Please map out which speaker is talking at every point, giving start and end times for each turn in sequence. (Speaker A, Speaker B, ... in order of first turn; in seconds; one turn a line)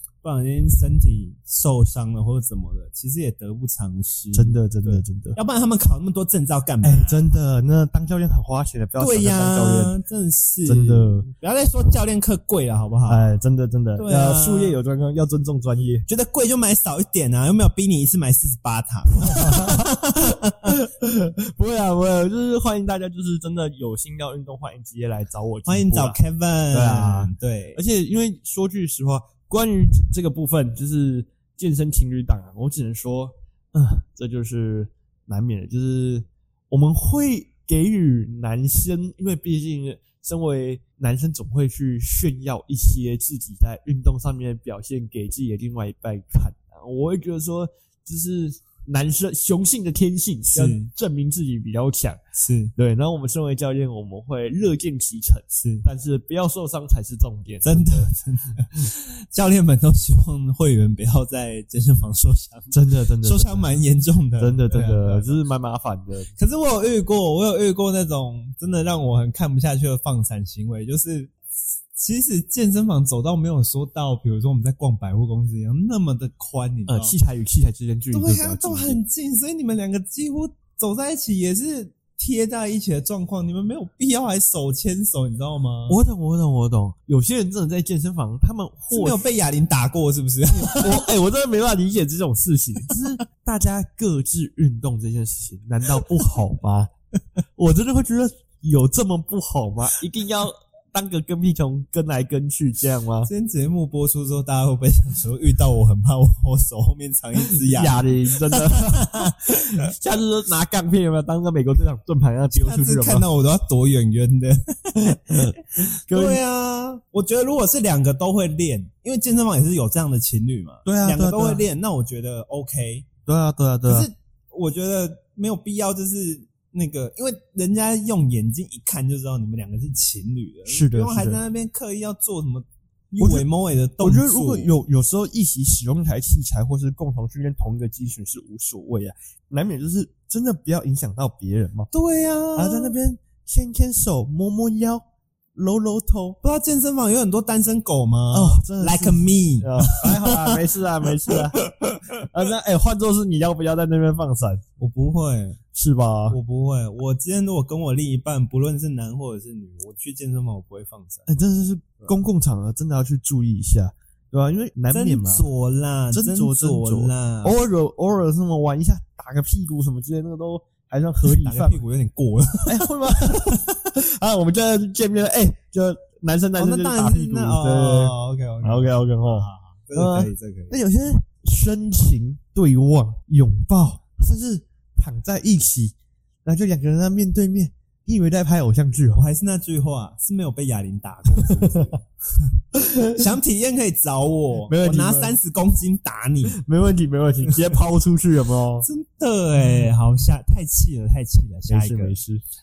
Speaker A: 0.2-7.2
Speaker B: 4.3-5.4
Speaker B: 6.8-9.9
Speaker A: 9.0-13.3
Speaker B: 10.6-11.2
Speaker B: 13.1-16.0
Speaker A: 13.9-14.8
Speaker A: 16.1-20.7
Speaker B: 19.3-26.2
Speaker A: 25.6-27.8
Speaker B: 26.7-52.2
Speaker A: 50.5-50.9
Speaker A: 52.3-52.7
Speaker B: 52.8-58.1
Speaker A: 55.5-55.9
Speaker A: 57.6-65.3
Speaker B: 62.7-63.7
Speaker B: 64.4-66.3
Speaker A: 66.3-71.4
Speaker A: 71.9-77.1
Speaker B: 76.9-79.0
Speaker A: 78.1-86.0
Speaker B: 85.9-89.2
Speaker A: 88.9-91.0
Speaker B: 90.5-96.9
Speaker B: 97.5-103.3
Speaker A: 103.2-109.7
Speaker B: 107.6-113.2
Speaker A: 112.5-123.1
Speaker B: 115.1-116.4
Speaker B: 120.8-121.6
Speaker B: 123.2-124.1
Speaker A: 123.8-134.7
Speaker B: 130.7-131.4
Speaker B: 133.2-133.5
Speaker B: 134.0-141.9
Speaker A: 141.9-142.9
Speaker B: 142.6-146.4
Speaker A: 146.4-150.6
Speaker B: 148.3-154.6
Speaker A: 151.3-152.0
Speaker A: 154.8-155.6
Speaker B: 155.7-156.4
Speaker A: 156.3-161.3
Speaker B: 161.3-165.4
Speaker A: 164.9-167.6
Speaker B: 166.1-171.8
Speaker A: 171.2-173.6
Speaker B: 172.7-189.2
Speaker A: 176.6-180.8
Speaker A: 189.1-192.0
Speaker B: 192.7-193.3
Speaker A: 193.1-196.6
Speaker B: 194.7-195.4
Speaker B: 196.5-198.9
Speaker A: 198.8-202.2
Speaker B: 201.7-202.4